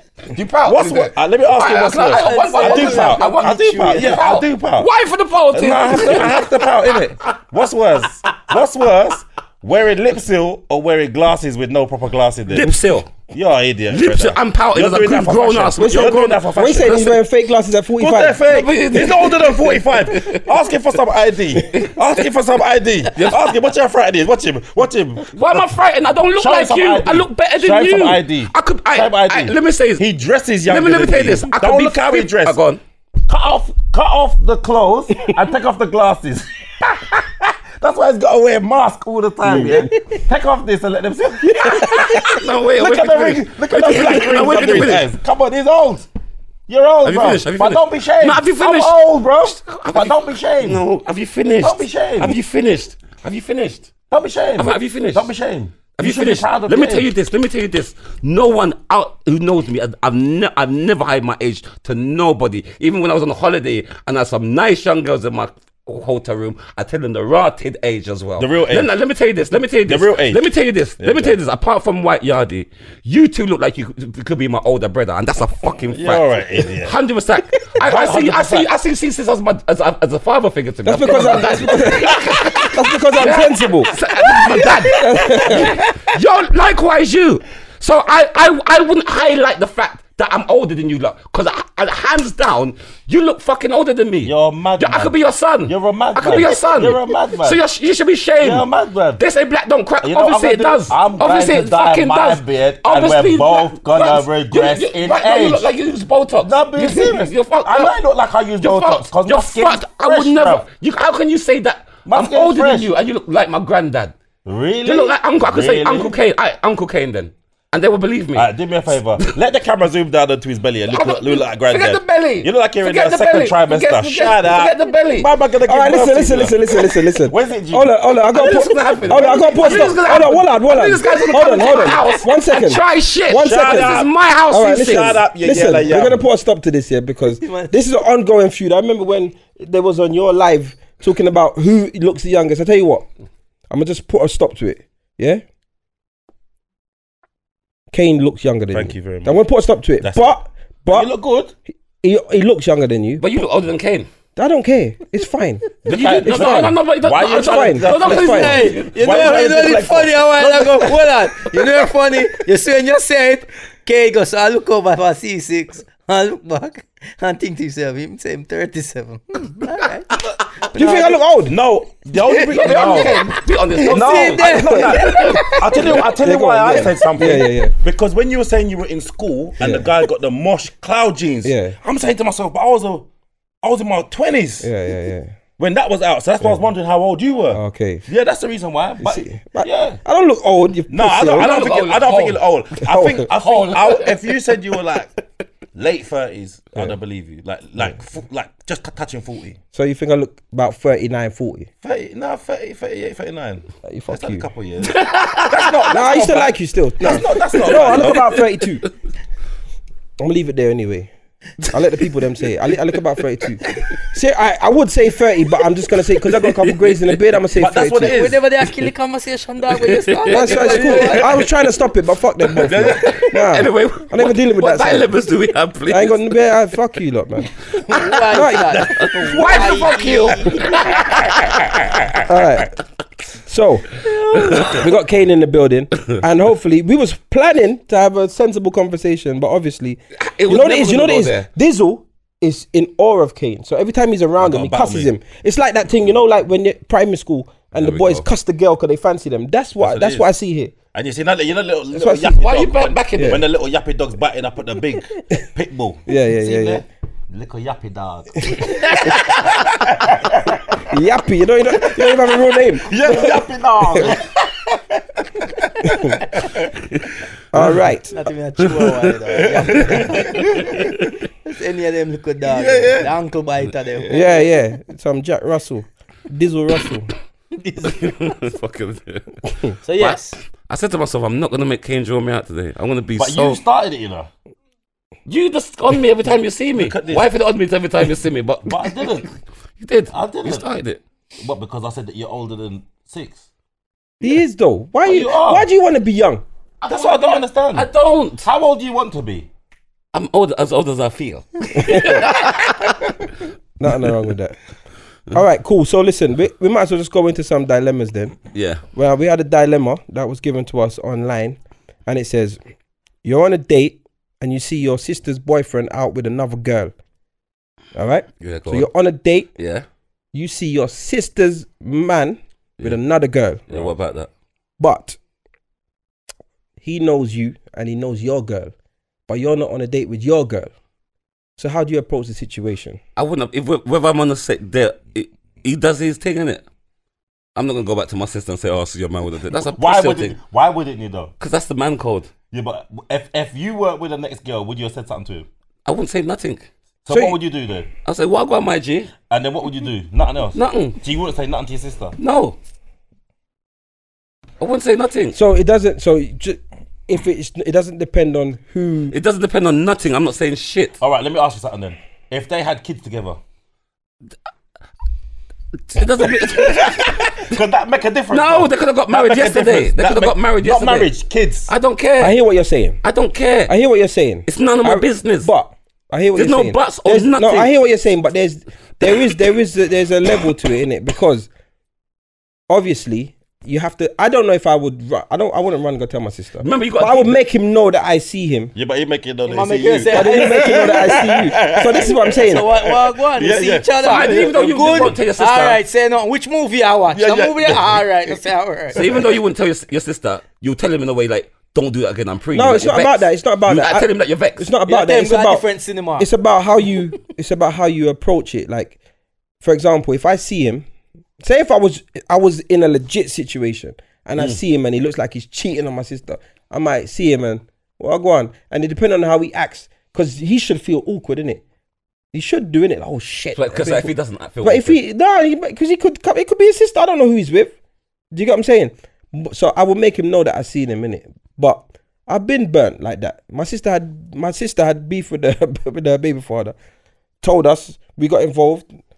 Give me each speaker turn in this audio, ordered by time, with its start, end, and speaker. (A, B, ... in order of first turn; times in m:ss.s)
0:00.3-0:06.6 A
0:00.7-0:04.9 B
0:02.2-0:04.2 C
0:05.5-0:12.8 B
0:12.5-0:13.1 A
0:13.3-0:17.2 B
0:13.9-0:17.2 A
0:15.8-0:18.4 D
0:18.0-0:25.4 B
0:18.5-0:20.5 A
0:23.1-0:23.5 A
0:25.3-0:30.0 A
0:26.4-0:32.6 B
0:30.7-0:32.8 A
0:33.3-0:46.1 B
0:39.4-0:40.0 D
0:41.4-0:42.4 D
0:41.8-0:45.1 A
0:46.7-0:50.8 B
0:47.0-0:53.9 A
0:51.6-0:52.4 B
0:54.1-0:57.1 B
0:54.6-0:55.3 A
0:55.9-1:38.7 A
1:08.4-1:08.9 B
1:09.9-1:10.4 B
1:11.0-1:11.4 B
1:15.9-1:16.9 B
1:17.8-1:18.7 B
1:20.8-1:23.9 D
1:24.9-1:25.8 D
1:34.2-1:35.1 B
1:35.7-1:37.6 B
1:38.4-1:39.2 B
1:39.2-1:48.0 A
1:40.0-1:45.7 B
1:46.4-1:50.6 B
1:48.6-1:54.1 A
1:52.1-1:52.9 B
1:54.4-1:56.2 B
1:54.8-1:58.5 A
1:58.4-2:07.9 B
2:00.9-2:05.3 A
2:05.6-2:23.1 D
2:08.3-2:15.2 A
2:09.0-2:10.0 B
2:13.4-2:14.1 B
2:14.7-2:16.2 B
2:17.4-2:17.8 C
2:23.7-2:25.4 D
2:27.9-2:31.1 D
2:28.7-2:29.4 B
2:30.0-2:30.3 B
2:30.9-2:31.5 B
2:32.0-2:33.2 D
2:33.2-2:34.1 A
2:34.4-2:38.6 D
2:35.8-2:41.1 B
2:35.9-2:39.0 A
2:38.0-2:51.2 C
2:50.7-2:51.6 D
2:51.5-3:03.1 B
2:52.3-2:55.8 C
2:52.4-2:56.2 A
2:56.0-2:57.8 D
2:59.6-2:59.9 D
3:01.4-3:01.8 D
3:03.6-3:04.7 B
3:04.6-3:05.4 D
3:05.6-3:10.0 B
3:07.5-3:08.0 D
3:09.0-3:11.6 D
3:10.9-3:15.1 B
3:11.3-3:12.4 A
3:12.9-3:13.3 D
3:13.1-3:14.4 A
3:15.8-3:19.6 B
3:19.7-3:21.7 D
3:21.8-3:28.4 B
3:23.8-3:24.5 D
3:24.8-3:26.1 A
3:25.9-3:28.8 D
3:27.5-3:28.4 A
3:30.2-3:31.1 D
3:31.6-3:38.2 D
3:36.4-3:37.1 A
3:37.6-3:38.4 B
3:38.0-3:41.4 C
3:39.8-3:41.5 A
3:40.3-3:45.1 D
3:42.5-3:46.5 A
3:42.6-3:43.3 B
3:45.9-3:47.5 D
3:47.8-3:50.6 C
3:48.3-3:49.2 D
3:49.0-3:51.7 A
3:51.8-3:52.2 B
3:52.2-3:52.8 D
3:53.4-4:10.7 D
3:54.0-3:54.8 C
4:00.2-4:01.5 A
4:04.4-4:05.1 B
4:07.8-4:08.3 A
4:09.8-4:10.3 B
4:10.9-4:20.9 B
4:11.9-4:12.4 D
4:12.2-4:13.4 A
4:13.2-4:13.4 D
4:16.1-4:16.8 D
4:20.9-4:24.2 D
4:21.8-4:26.9 B
4:25.8-4:26.2 D
4:27.5-4:28.2 D
4:28.1-4:30.4 C
4:29.6-4:31.0 B
4:31.4-4:34.6 C
4:32.5-4:33.1 B
4:34.1-4:37.1 D
4:37.6-4:38.1 C
4:37.8-4:43.6 A
4:39.8-4:40.4 C
4:43.2-4:44.3 B
4:45.3-4:49.2 A
4:46.8-4:47.3 B
4:48.7-4:49.3 B
4:49.8-4:51.0 A
4:50.1-4:50.7 B
4:51.4-4:53.4 B
4:54.2-4:56.4 D
4:55.0-4:55.7 B
4:56.8-4:58.5 A
4:56.9-4:57.9 B
4:58.4-4:59.5 B
5:00.1-5:03.1 A
5:01.8-5:02.2 D
5:03.8-5:04.6 D
5:05.3-5:08.4 D
5:08.5-5:08.8 A
5:08.9-5:12.6 D
5:13.2-5:16.9 D
5:17.9-5:19.5 D
5:18.4-5:18.9 A
5:19.6-5:19.9 A
5:20.3-5:23.6 D
5:23.7-5:24.3 A
5:24.8-5:25.2 D
5:26.8-5:28.7 D
5:29.3-5:30.7 D
5:31.6-5:33.0 D
5:33.2-5:36.6 A
5:37.6-5:40.4 A
5:39.7-5:41.3 B
5:41.4-5:42.3 A
5:42.5-5:45.5 B
5:45.9-5:46.6 A
5:47.1-5:47.9 B
5:47.1-5:47.4 D
5:48.0-5:49.1 A
5:49.3-5:52.2 B
5:50.6-5:51.0 A
5:52.2-5:52.6 A
5:54.6-5:55.4 A
5:55.3-5:59.2 D
5:59.1-6:01.0 A
6:01.0-6:03.4 B
6:05.9-6:07.6 A
6:06.2-6:11.7 B
6:08.3-6:11.1 A
6:11.7-6:12.4 A
6:12.2-6:13.0 D
6:13.0-6:13.8 A
6:13.7-6:21.5 D
6:14.5-6:15.5 A
6:16.4-6:17.7 A
6:22.7-6:28.7 D
6:26.6-6:27.4 A
6:28.7-6:35.2 B
6:29.5-6:31.1 C
6:30.1-6:32.7 D
6:32.4-6:39.0 C
6:34.0-6:35.8 A
6:37.1-6:38.3 B
6:39.0-6:39.3 B
6:39.0-6:44.7 A
6:42.5-6:45.6 D
6:44.9-6:46.3 C
6:46.2-6:49.0 D
6:49.6-6:50.9 D
6:51.4-7:01.6 D
7:02.3-7:04.1 D
7:03.6-7:05.0 A
7:04.6-7:07.7 D
7:08.3-7:16.8 D
7:17.4-7:18.9 D